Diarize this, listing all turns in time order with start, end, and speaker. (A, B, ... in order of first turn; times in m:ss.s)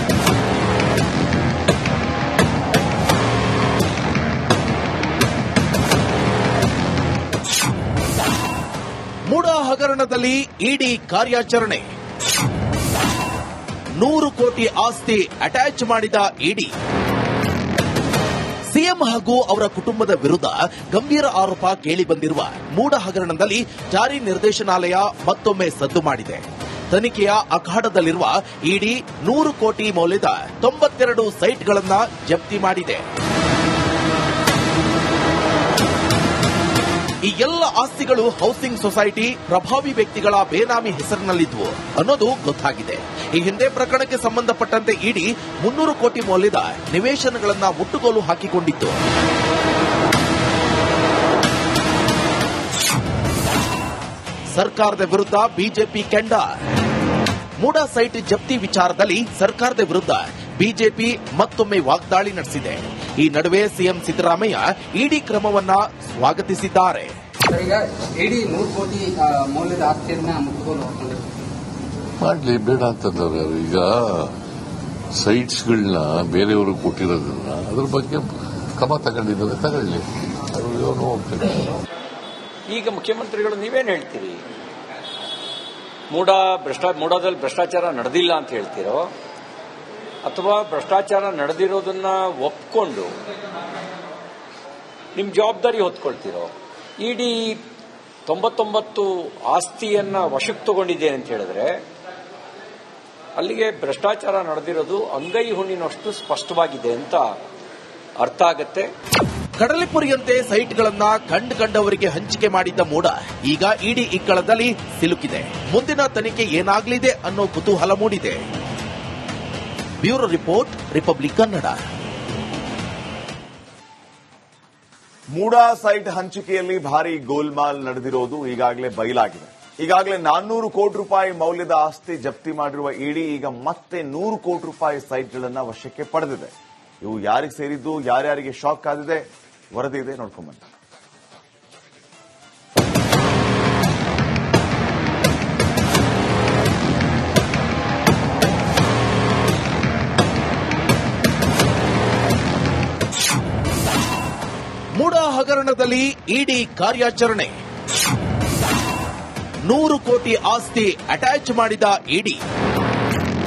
0:09.3-0:11.8 A
0:14.0-0:16.7 A
0:18.7-0:33.0 A
0:37.3-0:49.0 A
0:54.5-0:56.5 A
0:57.6-1:07.1 A
1:07.5-1:11.4 B
1:12.2-1:14.4 C
1:15.1-1:21.8 C
1:22.7-1:24.4 D
1:26.1-1:29.1 D
1:30.2-1:33.2 D
1:35.1-1:37.6 D
1:38.2-1:41.8 D
1:43.4-1:47.2 D
1:48.2-1:48.9 D
1:49.6-1:58.4 A
2:00.0-2:01.8 A
2:05.3-2:20.6 E
2:35.0-2:37.5 A
2:39.7-2:42.4 A